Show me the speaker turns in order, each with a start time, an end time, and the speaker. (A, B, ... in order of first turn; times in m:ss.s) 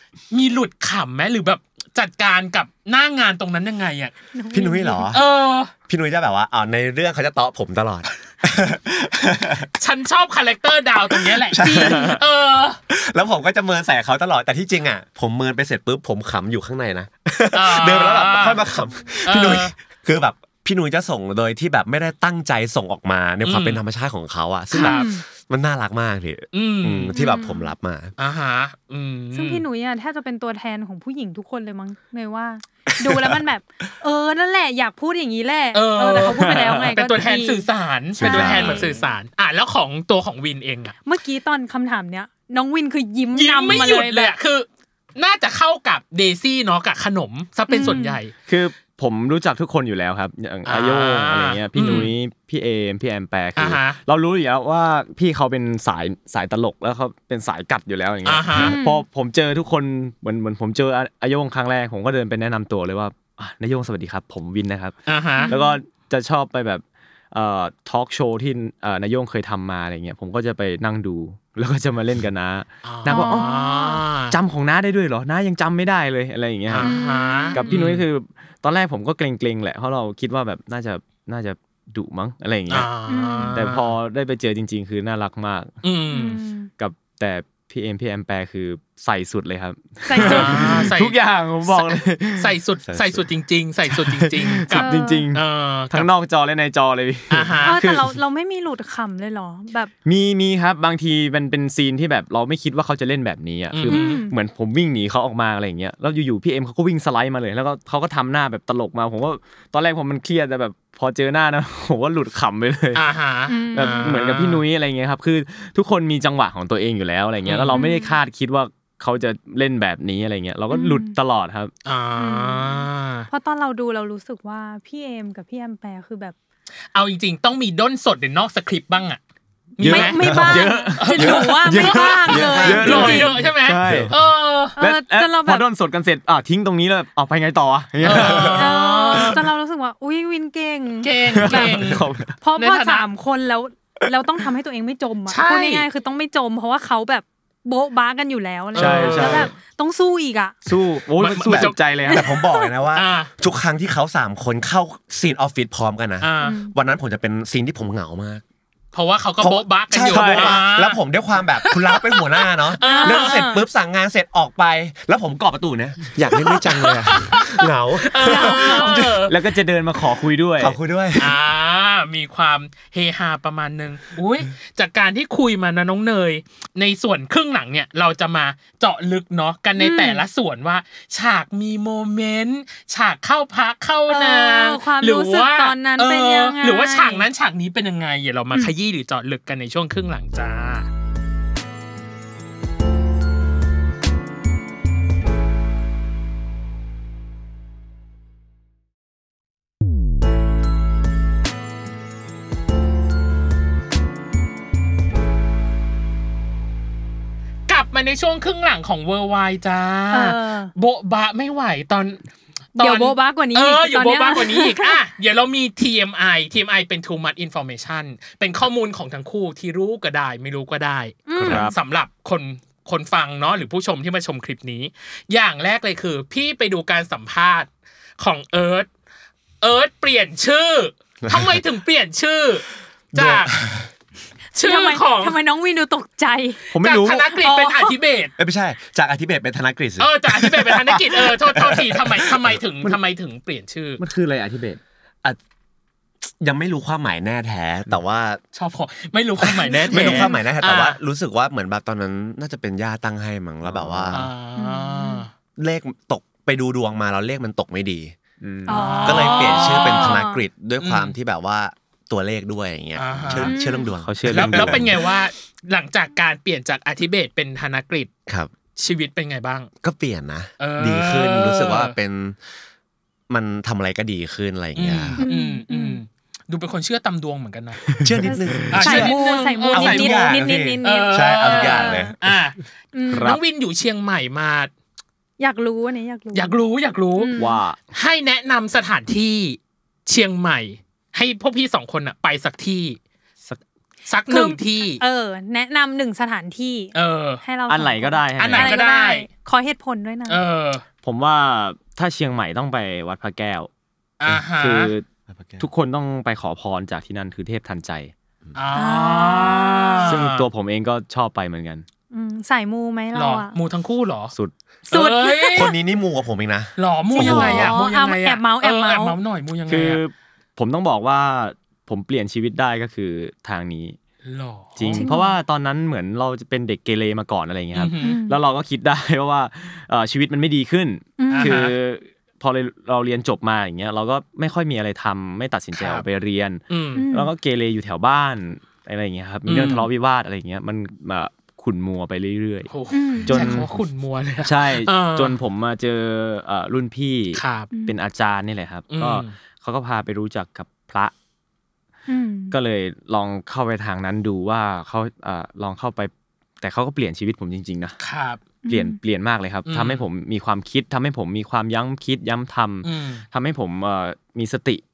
0:00.3-0:04.1 A
0:04.3-0:05.1 B
0:04.5-0:05.2 C
0:05.1-0:05.7 A
0:05.9-0:09.7 C
0:09.8-0:12.8 A
0:11.1-0:12.2 C
0:11.6-0:12.2 B
0:12.9-0:28.1 C
0:17.5-0:18.6 A
0:19.2-0:19.7 A
0:23.4-0:23.8 A
0:24.7-0:25.2 B
0:24.7-0:25.1 A
0:26.5-0:27.1 A
0:27.1-0:27.7 B
0:28.2-0:29.6 A
0:29.3-0:37.7 B
0:33.0-0:33.4 C
0:35.7-0:41.0 A
0:36.2-0:36.9 D
0:38.2-0:39.1 B
0:38.2-0:38.8 C
0:38.2-0:38.8 D
0:41.0-0:44.3 B
0:43.3-0:48.3 A
0:47.7-0:48.2 B
0:48.5-1:05.0 D
0:50.6-0:52.1 A
0:51.8-0:52.1 B
0:53.6-0:54.0 A
0:58.2-0:58.8 A
0:58.6-0:59.0 B
1:05.0-1:05.5 A
1:05.4-1:05.8 B
1:05.5-1:13.5 D
1:12.8-1:14.4 A
1:13.1-1:14.0 B
1:14.3-1:16.9 D
1:16.7-1:18.0 A
1:16.7-1:17.8 B
1:17.5-1:22.9 D
1:22.7-1:23.9 A
1:23.1-1:23.6 B
1:23.5-1:25.7 D
1:25.8-1:26.4 A
1:26.1-1:26.7 B
1:26.8-1:32.5 D
1:30.0-1:30.9 B
1:30.1-1:36.1 A
1:32.9-1:33.2 C
1:33.9-1:38.1 D
1:34.7-1:35.3 B
1:37.3-1:37.8 A
1:37.6-1:39.9 B
1:40.0-1:53.1 D
1:43.7-1:44.2 A
1:43.9-1:44.3 B
1:52.9-1:54.6 A
1:53.5-1:54.2 B
1:53.7-2:01.7 D
1:57.4-1:57.8 A
1:57.7-1:58.2 B
2:00.7-2:01.1 B
2:01.8-2:03.3 A
2:02.2-2:06.3 B
2:06.9-2:09.2 A
2:09.8-2:14.7 A
2:09.8-2:14.2 D
2:09.8-2:13.4 B
2:12.3-2:14.2 C
2:14.8-2:15.6 B
2:14.8-2:18.7 D
2:18.0-2:19.5 A
2:18.2-2:18.5 C
2:18.5-2:21.8 B
2:21.0-2:22.0 A
2:21.3-2:22.3 D
2:22.4-2:30.6 B
2:22.6-2:23.1 A
2:25.3-2:25.9 A
2:28.7-2:29.5 A
2:28.8-2:29.5 D
2:30.6-2:32.2 D
2:31.2-2:31.8 A
2:31.5-2:38.4 C
2:32.1-2:32.7 B
2:32.9-2:33.3 A
2:36.2-2:36.6 A
2:36.4-2:36.7 B
2:38.9-2:41.0 A
2:39.4-2:49.2 C
2:40.1-2:40.6 D
2:41.6-2:43.5 A
2:42.8-2:43.6 B
2:46.4-2:49.3 A
2:48.2-2:49.0 B
2:49.3-2:50.8 D
2:50.6-2:51.4 C
2:51.2-3:10.9 A
2:59.8-3:00.2 B
3:04.1-3:07.3 B
3:27.7-3:32.2 A
3:30.1-3:30.7 B
3:32.7-3:48.9 A
3:32.8-3:35.0 B
3:41.3-3:41.7 B
3:41.4-3:41.7 D
3:49.6-3:53.6 A
3:51.2-3:51.6 C
3:53.1-3:53.9 C
3:54.5-3:55.4 A
3:54.6-3:56.6 B
3:56.7-3:57.3 D
3:56.8-3:58.3 A
3:57.3-3:58.0 B
3:58.4-4:02.6 C
4:00.0-4:04.0 A
4:04.0-4:04.8 D
4:06.3-4:08.4 C
4:08.5-4:11.0 A
4:09.4-4:14.3 C
4:09.6-4:10.4 B
4:13.6-4:14.3 D
4:14.1-4:15.3 A
4:14.6-4:15.2 B
4:15.6-4:18.2 C
4:18.4-4:19.0 D
4:18.7-4:20.4 B
4:18.7-4:20.2 A
4:19.0-4:25.0 C
4:20.8-4:21.1 A
4:23.0-4:23.5 A
4:23.2-4:23.4 D
4:23.4-4:23.9 B
4:24.0-4:24.9 D
4:24.3-4:28.1 A
4:28.8-4:29.7 A
4:29.8-4:32.4 C
4:30.6-4:31.9 A
4:33.3-4:35.2 C
4:34.7-4:38.0 A
4:35.2-4:36.0 B
4:37.9-4:38.8 D
4:38.0-4:39.2 C
4:38.2-4:42.1 B
4:38.7-4:44.7 A
4:39.7-4:42.3 C
4:42.9-4:43.3 B
4:43.1-4:43.4 D
4:45.4-4:46.6 B
4:46.3-4:47.3 A
4:47.2-4:47.6 B
4:47.4-4:47.8 D
4:47.9-4:53.0 A
4:54.1-4:55.0 A
4:54.3-5:00.4 B
4:56.9-4:57.4 A
4:57.7-4:58.8 D
4:58.4-4:59.2 A
5:00.3-5:00.8 A
5:01.0-5:03.7 D
5:04.2-5:04.9 A
5:04.5-5:05.0 D
5:05.6-5:08.1 D
5:08.5-5:10.5 A
5:08.7-5:10.1 B
5:10.0-5:11.8 D
5:12.1-5:13.5 B
5:13.1-5:14.3 A
5:14.9-5:15.8 A
5:14.9-5:15.7 B
5:15.5-5:17.8 C
5:16.8-5:20.0 A
5:17.1-5:19.2 B
5:19.7-5:24.0 D
5:24.2-5:25.1 A
5:24.8-5:42.7 D
5:24.9-5:25.4 B
5:27.7-5:28.2 A
5:28.0-5:28.4 B
5:31.2-5:31.7 B
5:31.3-5:31.7 A
5:35.7-5:36.0 A
5:36.7-5:37.1 A
5:36.9-5:37.3 B
5:39.4-5:39.9 A
5:42.7-5:45.4 A
5:42.9-5:43.6 B
5:43.2-5:43.7 D
5:44.4-5:51.1 D
5:47.3-5:47.7 A
5:48.9-5:49.3 A
5:52.1-5:52.6 B
5:52.5-5:58.0 D
5:58.0-5:58.4 A
5:58.6-5:59.0 B
5:58.7-6:04.8 D
5:59.6-6:00.0 A
6:02.8-6:03.2 A